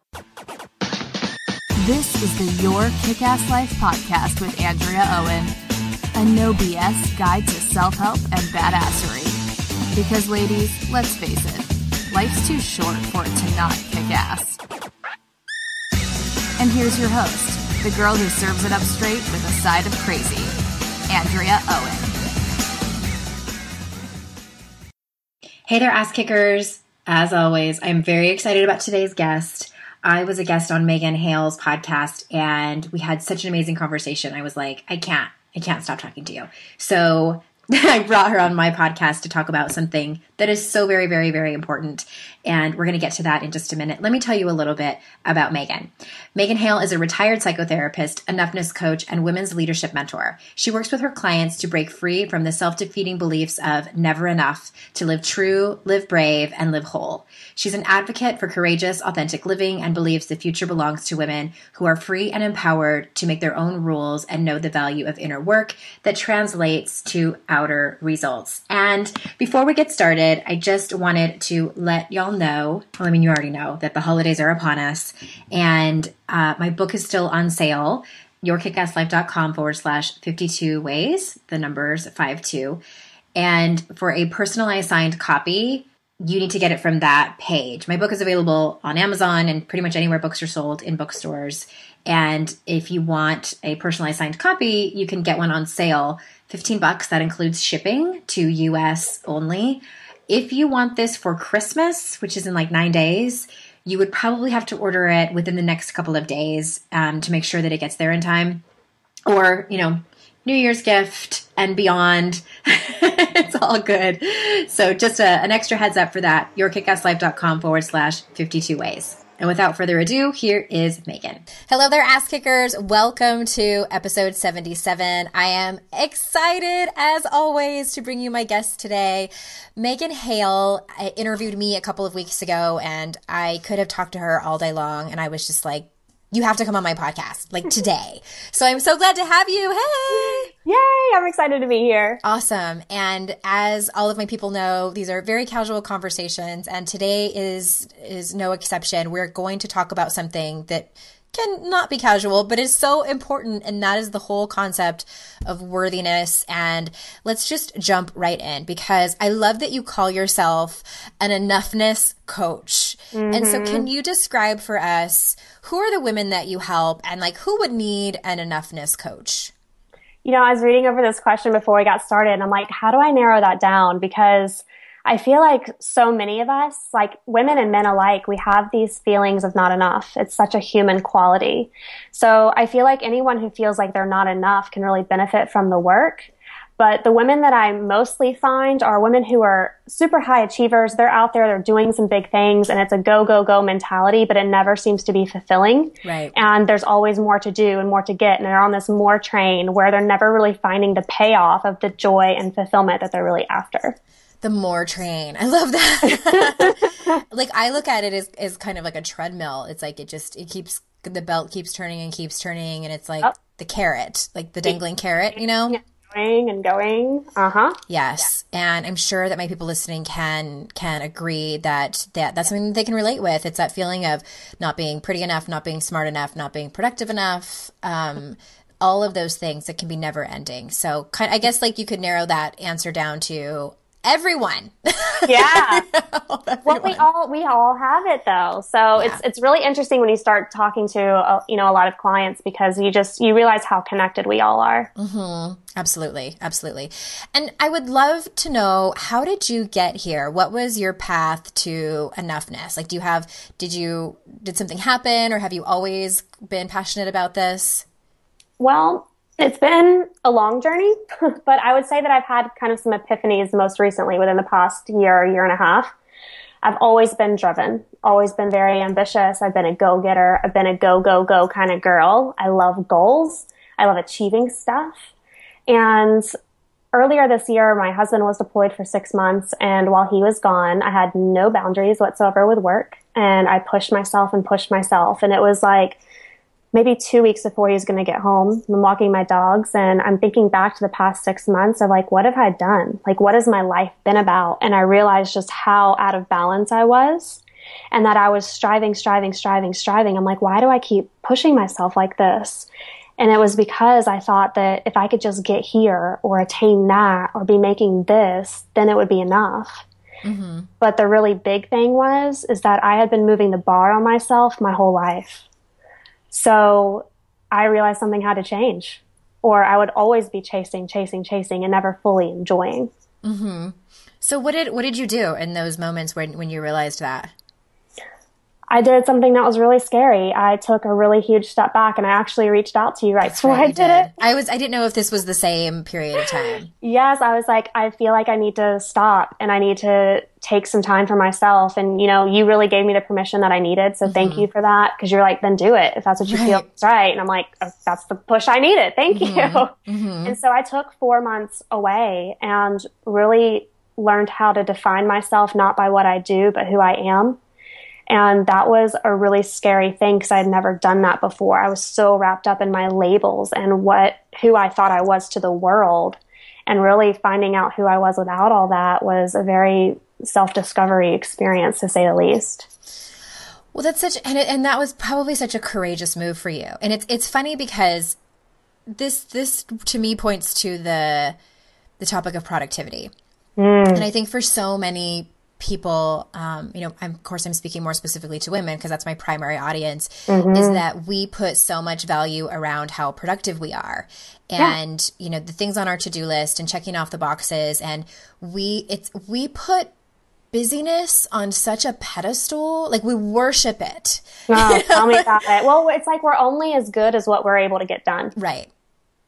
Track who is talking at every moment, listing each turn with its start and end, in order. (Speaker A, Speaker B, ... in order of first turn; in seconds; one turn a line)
Speaker A: 1.8-5.5
Speaker A: 6.2-9.4
Speaker A: 9.9-14.6
Speaker A: 16.6-20.6
Speaker A: 21.1-22.2
Speaker B: 25.7-82.8
Speaker B: 83.3-108.6
Speaker B: 109.3-140.5
Speaker C: 140.1-142.2
Speaker B: 142.2-169.5
Speaker C: 163.1-163.9
Speaker C: 170.2-204.0
Speaker B: 196.0-196.3
Speaker B: 204.4-215.8
Speaker C: 215.7-217.8
Speaker B: 217.9-237.1
Speaker C: 235.3-235.8
Speaker C: 236.7-244.9
Speaker B: 239.0-239.2
Speaker B: 245.0-257.9
Speaker C: 258.6-265.9
Speaker C: 266.6-275.1
Speaker C: 275.7-276.3
Speaker C: 276.9-286.0
Speaker C: 286.7-309.9
Speaker B: 310.2-310.7
Speaker C: 310.8-315.4
Speaker C: 316.3-322.9
Speaker B: 323.2-327.3
Speaker C: 328.7-334.1
Speaker B: 333.2-336.7
Speaker C: 336.8-349.7
Speaker B: 344.1-344.5
Speaker B: 346.3-346.7
Speaker B: 349.1-350.4
Speaker C: 350.2-357.4
Speaker C: 358.1-372.7
Speaker B: 373.7-378.2
Speaker B: 378.9-381.4
Speaker B: 382.0-383.1
Speaker C: 383.6-384.1
Speaker B: 383.9-399.9
Speaker C: 390.3-390.8
Speaker B: 400.5-405.3
Speaker C: 404.5-408.4
Speaker B: 408.4-408.7